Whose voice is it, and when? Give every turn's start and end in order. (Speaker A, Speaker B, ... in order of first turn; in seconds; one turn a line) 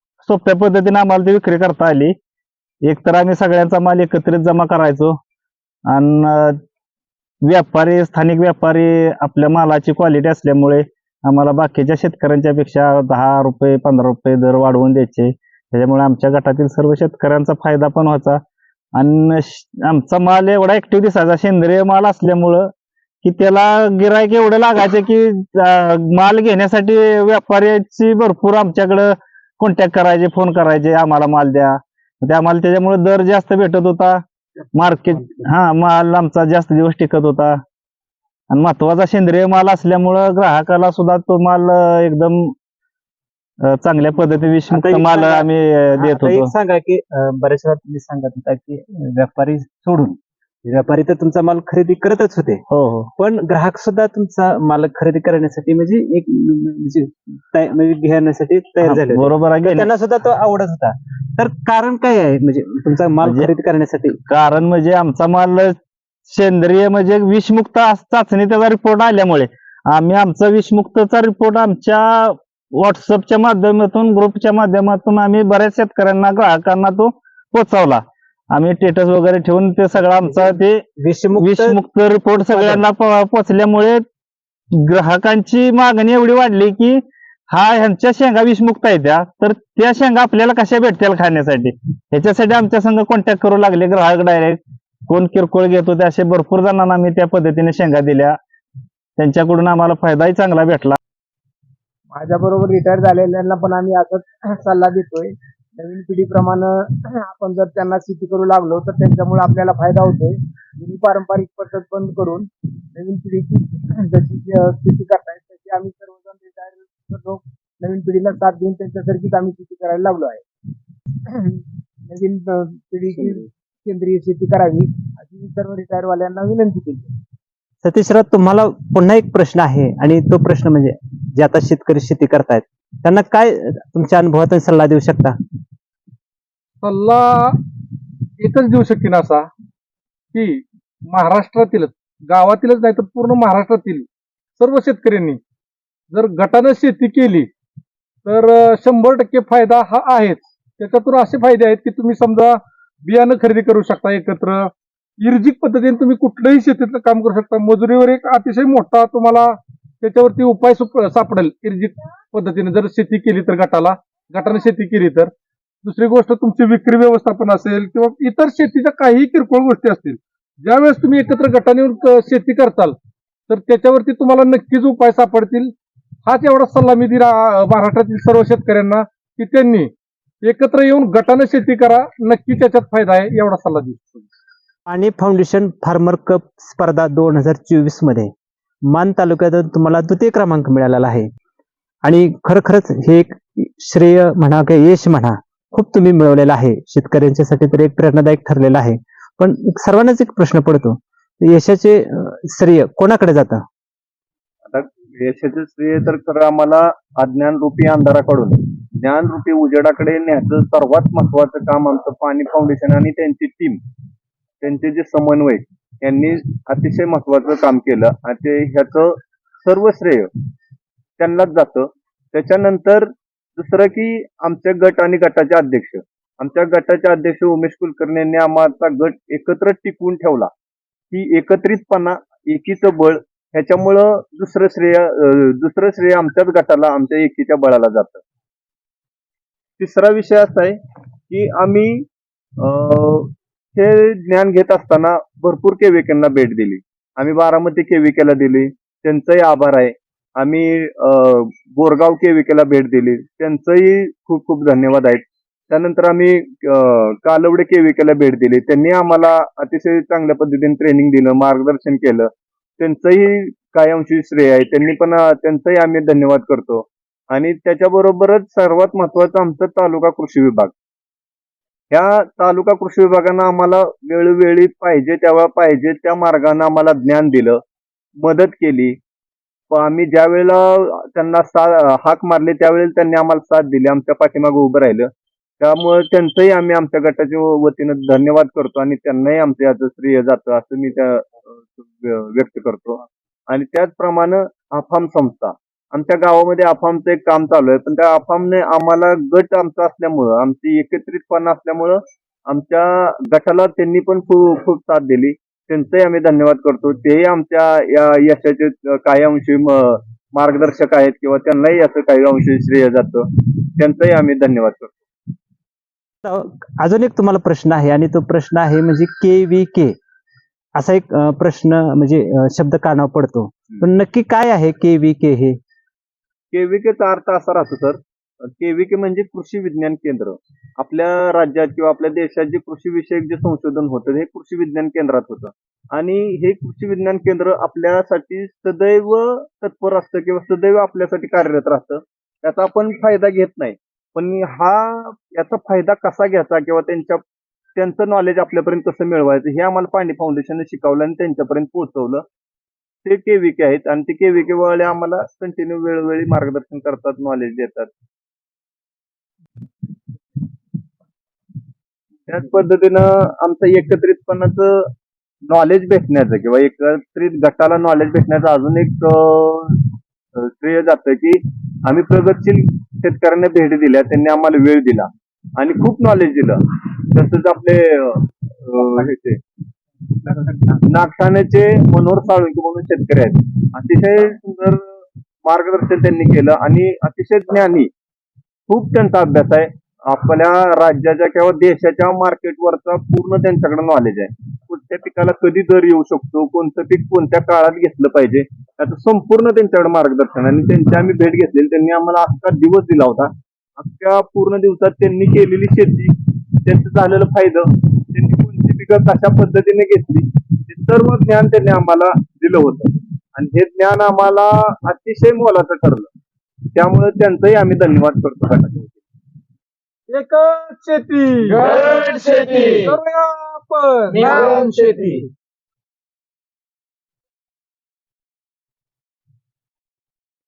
Speaker A: 0.2-2.1
Speaker A: 2.9-5.2
Speaker A: 5.9-6.6
Speaker A: 7.5-18.4
Speaker A: 19.0-22.7
Speaker A: 23.2-34.2
Speaker A: 34.8-37.6
Speaker A: 38.5-42.5
Speaker A: 43.7-46.5
Speaker B: 44.7-52.6
Speaker A: 52.7-53.1
Speaker B: 53.2-64.2
Speaker A: 58.8-59.9
Speaker A: 63.2-63.5
Speaker A: 64.3-65.8
Speaker A: 66.3-78.0
Speaker A: 78.5-80.8
Speaker B: 80.3-81.8
Speaker A: 81.4-84.0
Speaker B: 82.5-82.8
Speaker A: 84.8-98.4
Speaker A: 99.2-101.0
Speaker C: 102.1-120.5
Speaker C: 121.3-127.1
Speaker B: 127.8-135.4
Speaker D: 136.8-137.6
Speaker D: 138.4-139.5
Speaker D: 140.3-144.1
Speaker D: 144.6-145.4
Speaker D: 146.1-147.5
Speaker D: 148.3-154.7
Speaker D: 155.2-165.3
Speaker D: 165.8-173.0
Speaker D: 173.5-175.7
Speaker D: 176.3-179.9
Speaker D: 180.4-184.0
Speaker B: 184.9-188.3
Speaker B: 188.9-191.3
Speaker B: 192.1-203.6
Speaker E: 204.7-213.8
Speaker E: 214.6-220.3
Speaker E: 221.2-230.5
Speaker E: 231.1-238.2
Speaker E: 239.8-240.8
Speaker E: 241.3-242.1
Speaker E: 242.6-270.7
Speaker E: 271.9-277.6
Speaker E: 278.2-279.0
Speaker E: 279.7-285.1
Speaker E: 285.6-315.0
Speaker B: 316.2-320.0
Speaker B: 320.8-325.6
Speaker E: 326.5-347.2
Speaker E: 347.8-352.2
Speaker E: 353.1-357.9
Speaker E: 362.3-364.8
Speaker E: 365.5-369.8
Speaker E: 370.4-379.4
Speaker E: 380.3-384.8
Speaker E: 385.4-387.9
Speaker E: 388.7-416.1
Speaker E: 416.8-419.0
Speaker D: 420.1-424.9